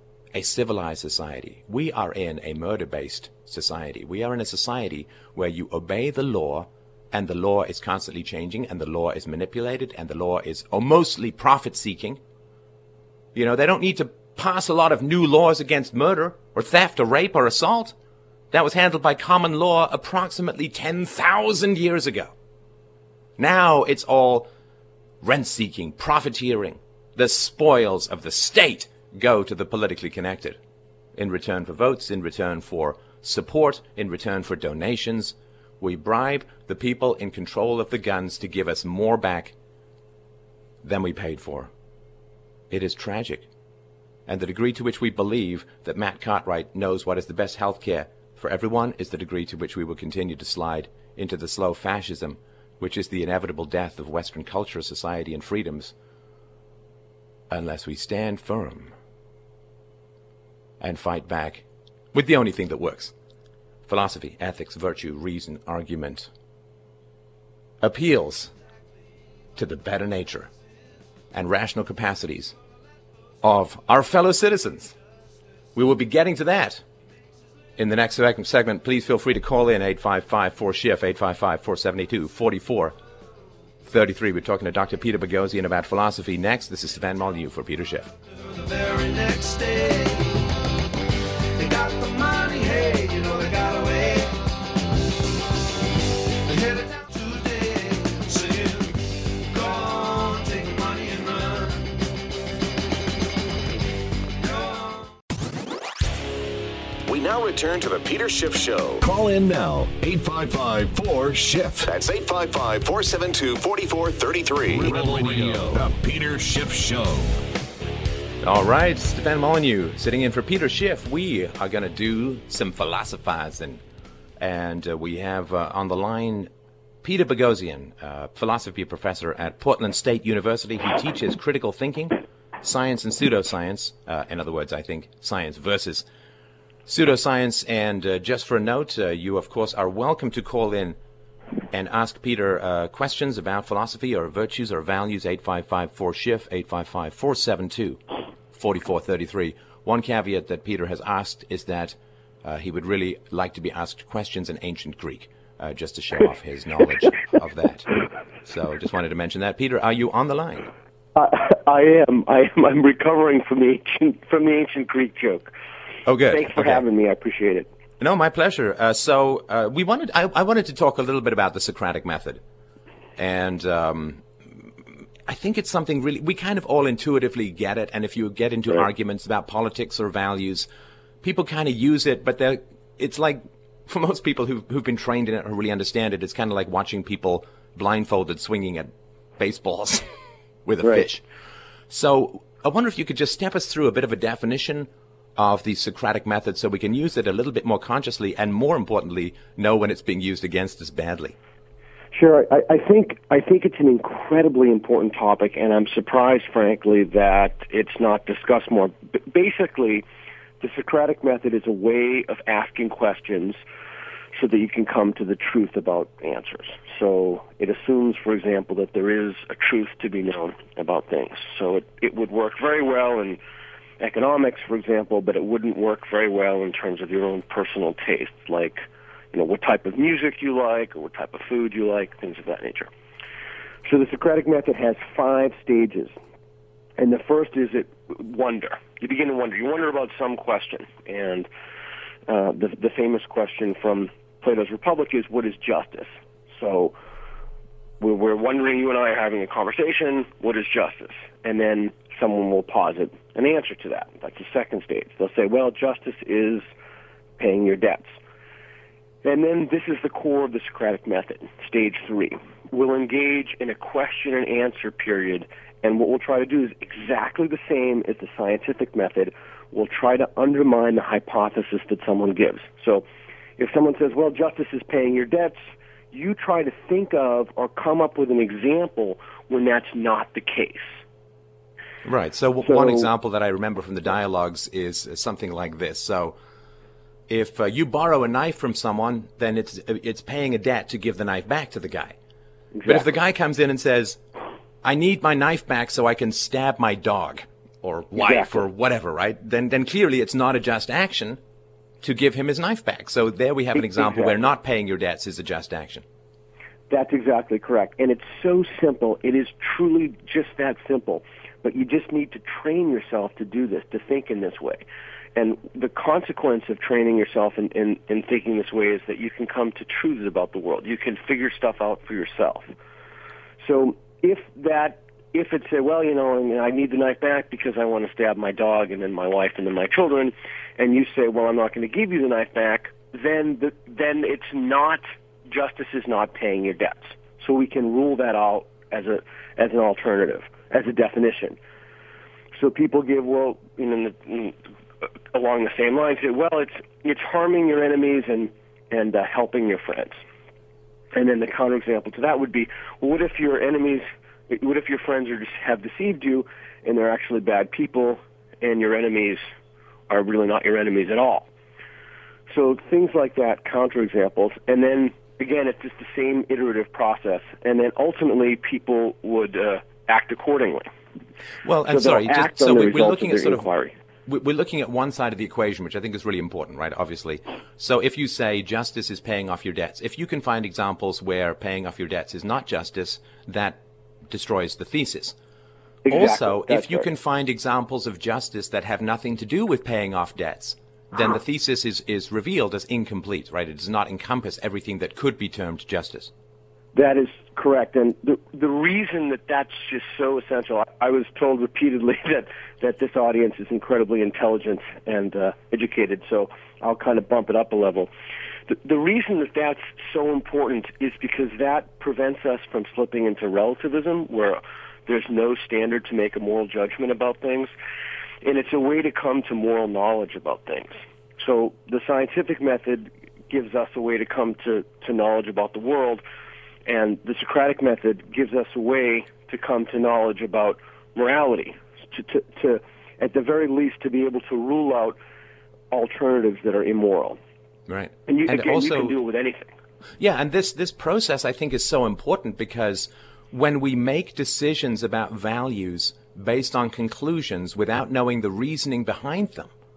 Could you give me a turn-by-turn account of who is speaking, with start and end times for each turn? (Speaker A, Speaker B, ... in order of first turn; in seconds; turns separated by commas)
Speaker A: 0.3-12.2, Speaker A: 13.3-17.9, Speaker A: 18.5-22.3, Speaker A: 23.4-24.5, Speaker A: 25.2-30.6, Speaker A: 31.2-39.5, Speaker A: 40.8-41.7, Speaker A: 42.7-43.5, Speaker A: 44.3-55.9, Speaker A: 57.5-58.9, Speaker A: 60.8-63.1, Speaker A: 63.9-66.3, Speaker A: 67.8-68.5, Speaker A: 69.6-70.5, Speaker A: 71.3-72.5, Speaker A: 73.4-75.0, Speaker A: 75.8-76.8, Speaker A: 77.8-83.0, Speaker A: 83.8-88.1, Speaker B: 88.6-90.4, Speaker B: 91.6-94.4, Speaker B: 96.5-98.9, Speaker B: 99.5-101.8, Speaker B: 104.4-104.7, Speaker C: 107.1-109.0, Speaker D: 109.0-111.9, Speaker C: 111.8-115.5, Speaker D: 114.7-117.3, Speaker A: 118.4-123.8, Speaker A: 124.4-126.5, Speaker A: 127.0-136.1, Speaker A: 136.9-141.0, Speaker A: 141.7-148.0, Speaker A: 148.5-157.9, Speaker A: 158.4-160.7, Speaker E: 161.2-165.5, Speaker A: 166.1-166.8, Speaker E: 166.3-167.7, Speaker A: 168.0-172.4, Speaker A: 173.2-174.2, Speaker A: 175.3-180.7, Speaker A: 181.2-190.1, Speaker A: 190.7-191.2, Speaker A: 191.9-201.4, Speaker E: 202.1-210.0, Speaker E: 210.6-213.6, Speaker E: 214.4-223.4, Speaker E: 224.0-232.9, Speaker E: 233.8-236.1, Speaker E: 237.0-241.5, Speaker E: 242.3-247.0, Speaker E: 248.0-256.7, Speaker E: 257.4-258.2, Speaker E: 259.2-273.1, Speaker E: 273.6-275.6, Speaker E: 276.1-280.9, Speaker A: 282.0-286.4, Speaker E: 282.7-283.1, Speaker A: 287.3-292.2, Speaker E: 292.8-293.1, Speaker A: 292.9-294.2, Speaker A: 294.8-301.4, Speaker E: 298.2-298.6, Speaker A: 302.0-306.0, Speaker E: 303.8-304.4, Speaker E: 306.9-314.8, Speaker E: 315.4-322.7, Speaker E: 323.6-341.6, Speaker E: 342.6-344.6, Speaker E: 345.3-350.2, Speaker E: 351.1-359.4, Speaker E: 360.1-361.5, Speaker E: 362.5-370.9, Speaker A: 371.6-373.7, Speaker E: 371.9-373.9, Speaker A: 374.3-383.8, Speaker A: 384.3-385.4, Speaker E: 386.1-387.1, Speaker A: 386.1-396.3, Speaker E: 396.9-408.1, Speaker E: 408.7-417.7, Speaker E: 418.4-426.2, Speaker E: 426.9-435.2, Speaker E: 435.9-437.4, Speaker A: 437.9-439.1, Speaker E: 438.3-439.7, Speaker A: 440.2-449.7